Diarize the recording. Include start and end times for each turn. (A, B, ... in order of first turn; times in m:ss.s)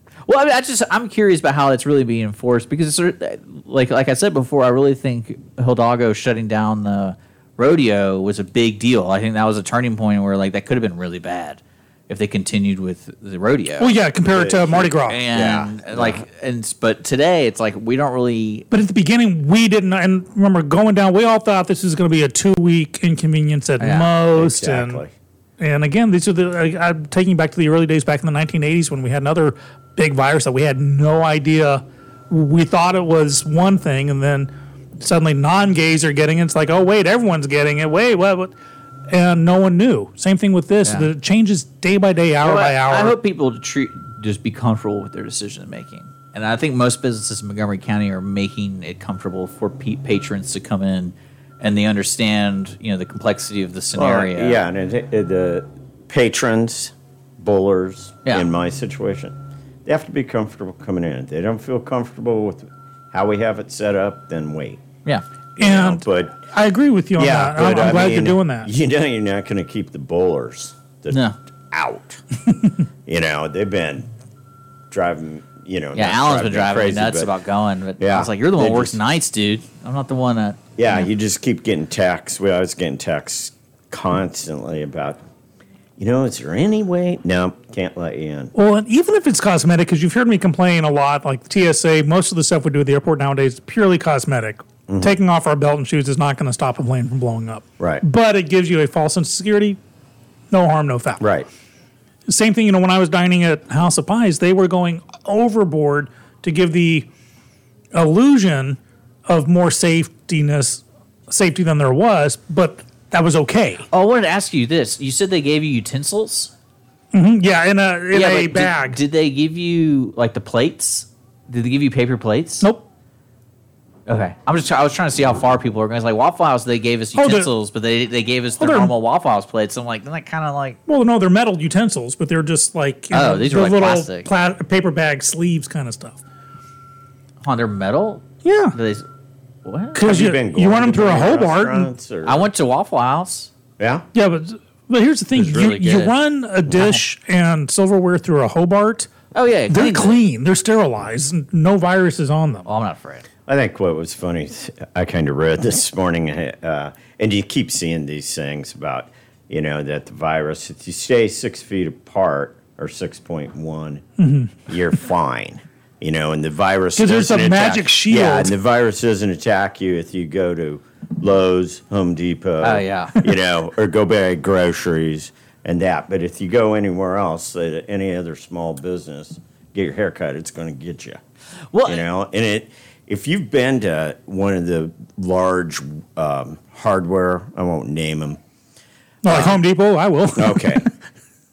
0:00.2-0:13.9 A
0:13.8-0:15.2 B
0:14.3-0:16.2 C
0:15.0-0:18.6 A
0:18.7-0:25.0 B
0:23.8-0:24.1 A
0:24.3-0:25.1 C
0:25.6-0:38.5 B
0:39.1-0:43.2 B
0:42.4-0:54.6 A
0:54.0-1:04.8 C
1:05.6-1:06.4 C
1:05.6-1:08.7 B
1:07.2-1:12.2 C
1:11.1-1:11.4 A
1:13.0-1:14.1 C
1:14.9-1:17.3 C
1:15.9-1:20.6 A
1:18.0-1:19.0 C
1:20.8-1:25.2 C
1:26.0-1:28.5 C
1:28.5-1:39.8 B
1:34.9-1:35.1 C
1:40.5-1:41.3 B
1:41.2-1:41.5 C
1:42.3-1:47.1 B
1:47.9-1:53.8 B
1:53.9-1:56.5 A
1:57.1-1:59.0 B
1:58.1-2:02.6 A
2:02.6-2:02.8 B
2:04.1-2:10.8 A
2:07.1-2:07.5 B
2:08.6-2:08.9 B
2:10.8-2:16.2 B
2:13.1-2:14.3 A
2:17.4-2:19.0 A
2:18.4-2:18.8 B
2:19.6-2:20.1 A
2:19.9-2:21.9 B
2:20.0-2:22.5 C
2:22.2-2:23.5 A
2:23.8-2:24.1 C
2:24.1-2:29.1 B
2:25.3-2:26.1 A
2:29.3-2:30.2 A
2:29.7-2:32.7 B
2:32.6-2:33.3 A
2:33.5-2:44.0 C
2:44.2-2:44.5 B
2:44.7-3:01.2 C
2:47.0-2:48.5 B
2:52.6-2:53.2 A
3:01.7-3:02.0 A
3:01.8-3:08.4 C
3:09.2-3:10.9 B
3:09.2-3:09.6 C
3:10.4-3:10.8 C